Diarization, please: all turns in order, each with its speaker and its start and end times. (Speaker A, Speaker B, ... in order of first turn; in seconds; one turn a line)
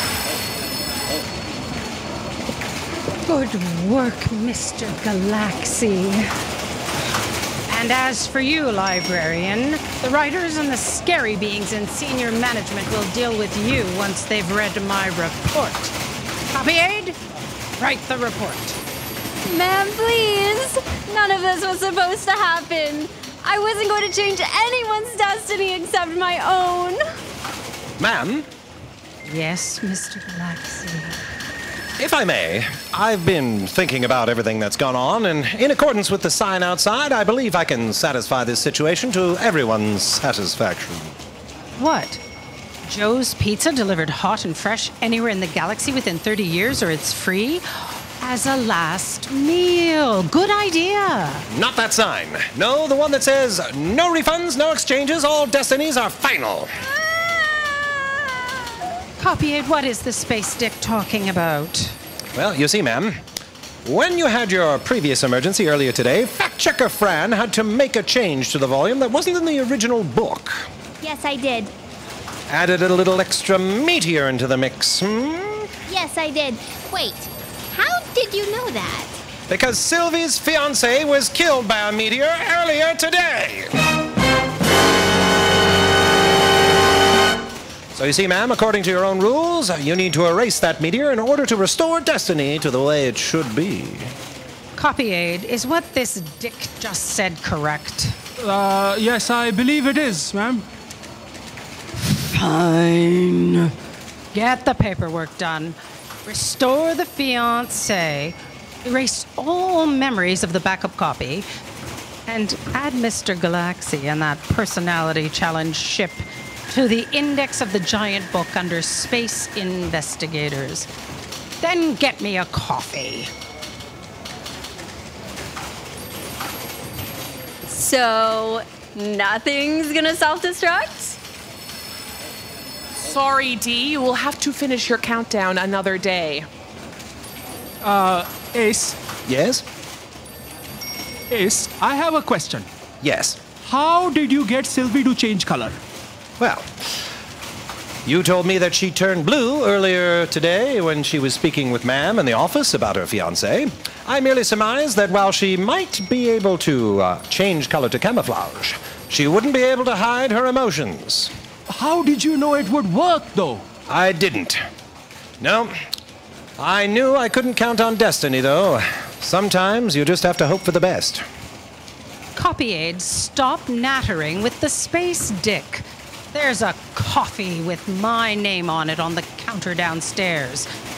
Speaker A: 3.2-6.3
Speaker A: 7.7-15.9
Speaker A: 16.5-17.2
Speaker A: 17.8-18.8
Speaker B: 19.4-27.0
Speaker C: 28.0-28.5
Speaker A: 29.2-31.2
Speaker C: 32.0-41.2
Speaker A: 41.8-42.2
Speaker A: 42.9-51.5
Speaker C: 51.5-56.7
Speaker A: 59.2-62.0
Speaker C: 62.4-63.2
Speaker C: 63.8-70.7
Speaker D: 71.0-71.7
Speaker C: 72.5-75.7
Speaker D: 75.9-79.2
Speaker C: 79.5-83.8
Speaker C: 87.9-94.1
Speaker A: 94.8-98.2
Speaker E: 98.4-100.7
Speaker A: 102.1-103.7
Speaker A: 104.3-111.5
Speaker A: 112.3-120.9
Speaker A: 121.6-123.3
Speaker B: 127.7-131.2
Speaker F: 133.0-136.5
Speaker E: 137.8-139.0
Speaker C: 139.3-139.7
Speaker E: 141.3-142.7
Speaker C: 143.0-143.4
Speaker E: 143.6-145.8
Speaker C: 146.4-147.0
Speaker C: 148.1-161.3
Speaker E: 161.7-163.7
Speaker C: 163.9-164.6
Speaker C: 165.4-165.7
Speaker C: 166.6-171.3
Speaker A: 172.4-180.7